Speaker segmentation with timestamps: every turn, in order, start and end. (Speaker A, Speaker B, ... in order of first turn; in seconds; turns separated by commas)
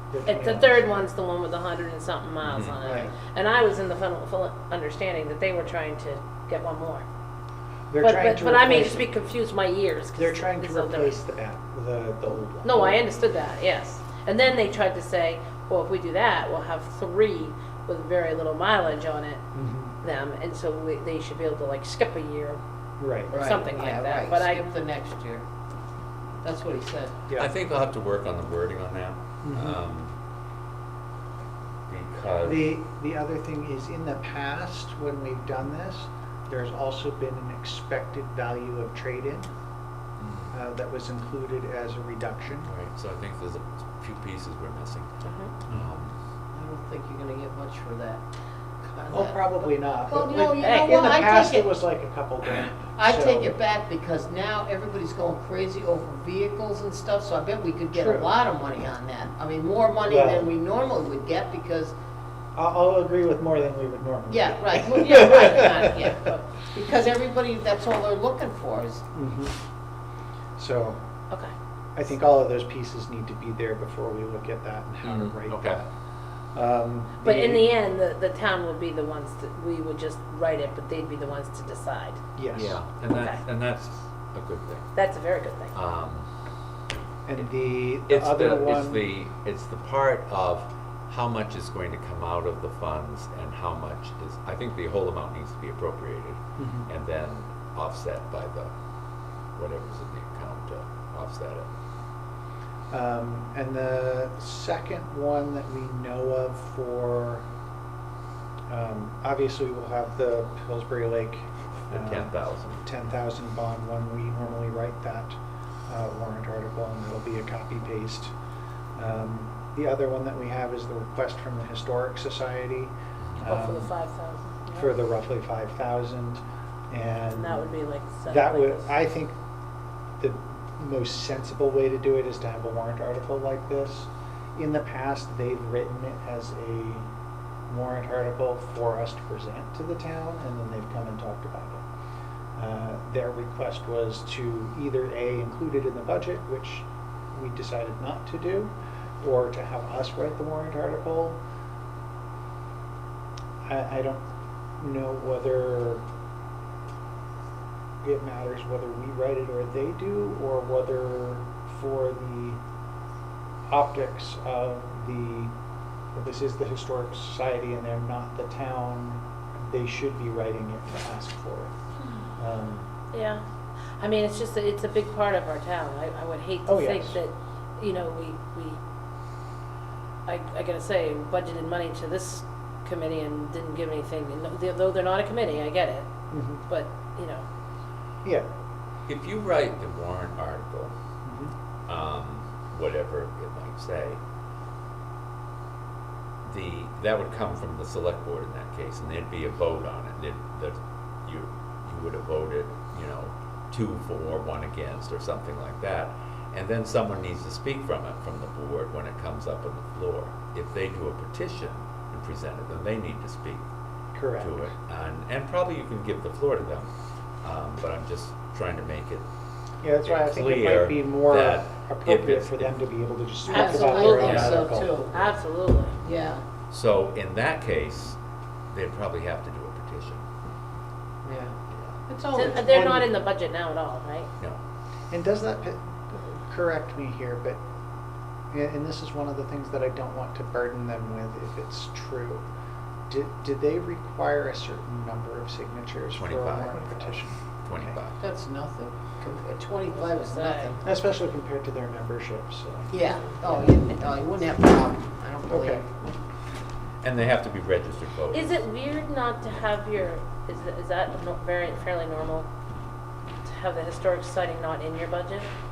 Speaker A: 0.1-0.9, Speaker B: 0.3-7.0, Speaker C: 2.4-2.8, Speaker A: 2.8-3.1, Speaker A: 7.9-9.1, Speaker B: 8.0-11.2, Speaker A: 10.2-13.0, Speaker B: 12.6-19.4, Speaker A: 19.5-20.0, Speaker B: 20.0-22.6, Speaker A: 23.0-23.4, Speaker B: 23.3-24.7, Speaker D: 23.3-25.4, Speaker D: 26.4-27.2, Speaker C: 27.3-30.1, Speaker A: 29.4-29.8, Speaker C: 31.9-32.7, Speaker A: 32.4-39.5, Speaker C: 40.2-40.5, Speaker A: 40.5-42.7, Speaker C: 42.6-46.1, Speaker B: 45.2-45.5, Speaker D: 46.5-48.2, Speaker D: 48.8-51.7, Speaker A: 49.1-53.5, Speaker B: 50.6-51.3, Speaker D: 52.5-61.9, Speaker A: 57.9-58.3, Speaker A: 60.1-60.5, Speaker A: 62.5-65.5, Speaker D: 64.3-69.0, Speaker B: 65.0-66.4, Speaker A: 69.1-69.6, Speaker A: 70.6-71.0, Speaker A: 72.0-75.9, Speaker C: 75.0-75.8, Speaker A: 76.5-77.7, Speaker B: 77.2-82.2, Speaker A: 82.4-82.8, Speaker C: 82.5-84.9, Speaker B: 83.1-83.4, Speaker B: 84.9-85.7, Speaker C: 85.7-86.3, Speaker A: 87.3-89.0, Speaker C: 88.1-98.7, Speaker A: 96.6-96.9, Speaker C: 99.6-101.7, Speaker A: 102.9-107.5, Speaker A: 108.7-118.3, Speaker C: 111.9-112.8, Speaker A: 119.0-123.9, Speaker B: 123.4-124.9, Speaker A: 124.7-127.7, Speaker B: 127.3-128.9, Speaker A: 128.3-129.3, Speaker A: 130.2-137.1, Speaker A: 137.7-141.8, Speaker A: 142.6-151.4, Speaker A: 153.7-154.2, Speaker A: 154.8-156.1, Speaker A: 158.0-162.6, Speaker A: 163.7-165.5, Speaker A: 166.2-171.7, Speaker A: 172.4-172.9, Speaker B: 173.1-173.4, Speaker B: 174.0-178.8, Speaker A: 176.7-177.2, Speaker B: 180.3-186.1, Speaker A: 186.3-186.6, Speaker B: 186.6-187.4, Speaker C: 189.1-190.9, Speaker A: 191.2-191.5, Speaker C: 191.9-194.2, Speaker C: 196.4-213.6, Speaker A: 214.1-214.6, Speaker C: 214.4-216.9, Speaker C: 217.4-219.3, Speaker A: 219.8-225.2, Speaker C: 220.0-222.8, Speaker D: 223.4-225.1, Speaker B: 223.5-226.0, Speaker C: 224.1-224.6, Speaker D: 226.0-226.4, Speaker C: 226.7-228.2, Speaker C: 228.7-230.2, Speaker D: 231.2-233.1, Speaker B: 232.3-234.3, Speaker A: 235.1-237.6, Speaker A: 238.5-242.5, Speaker A: 243.1-248.0, Speaker C: 246.2-248.2, Speaker D: 248.2-250.8, Speaker B: 250.0-250.7, Speaker A: 250.8-253.8, Speaker D: 252.9-256.1, Speaker A: 255.5-255.8, Speaker C: 257.0-258.6, Speaker B: 258.3-262.5, Speaker B: 263.4-265.5